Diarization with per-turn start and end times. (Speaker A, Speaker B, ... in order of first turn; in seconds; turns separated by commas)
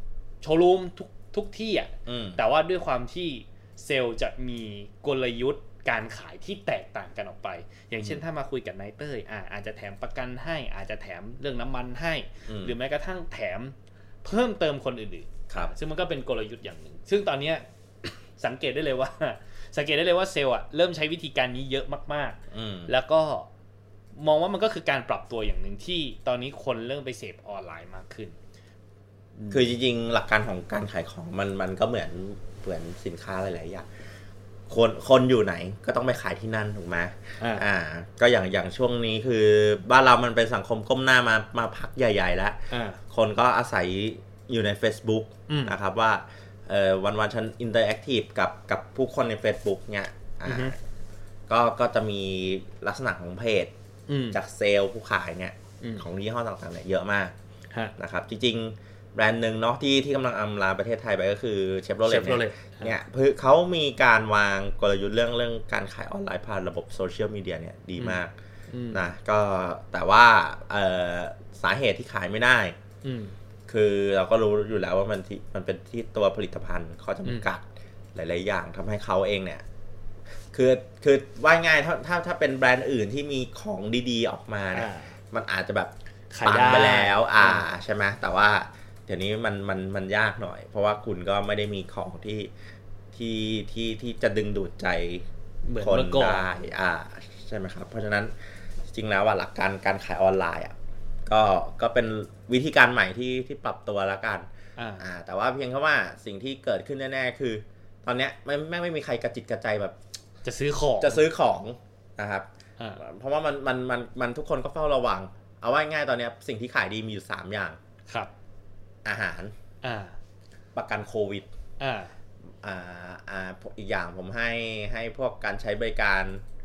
Speaker A: 0.4-23.5, Speaker B: 2.1-2.4, Speaker B: 12.5-12.8, Speaker B: 22.5-22.9, Speaker A: 24.1-28.4, Speaker A: 29.4-29.7, Speaker B: 29.5-33.9, Speaker B: 34.7-50.8, Speaker A: 37.4-37.6, Speaker A: 42.7-43.0, Speaker A: 45.5-45.7, Speaker A: 50.5-50.7, Speaker B: 51.5-53.7, Speaker A: 54.1-54.4, Speaker B: 54.3-57.3, Speaker A: 55.8-56.0, Speaker B: 58.0-68.3, Speaker A: 62.0-62.9, Speaker A: 68.0-69.0, Speaker B: 68.9-72.8, Speaker A: 73.0-73.3, Speaker B: 73.7-79.6, Speaker B: 80.5-85.9, Speaker A: 84.7-85.2, Speaker A: 86.3-87.7, Speaker B: 86.4-92.5, Speaker B: 93.1-95.2, Speaker A: 95.7-96.4, Speaker B: 95.8-98.3, Speaker B: 98.9-104.5, Speaker A: 104.8-105.1, Speaker B: 105.0-110.0, Speaker A: 110.4-111.2, Speaker B: 111.0-112.5, Speaker B: 113.0-117.8, Speaker B: 119.0-119.5, Speaker A: 119.8-120.2, Speaker B: 120.7-121.5, Speaker A: 121.8-122.1, Speaker B: 122.6-126.4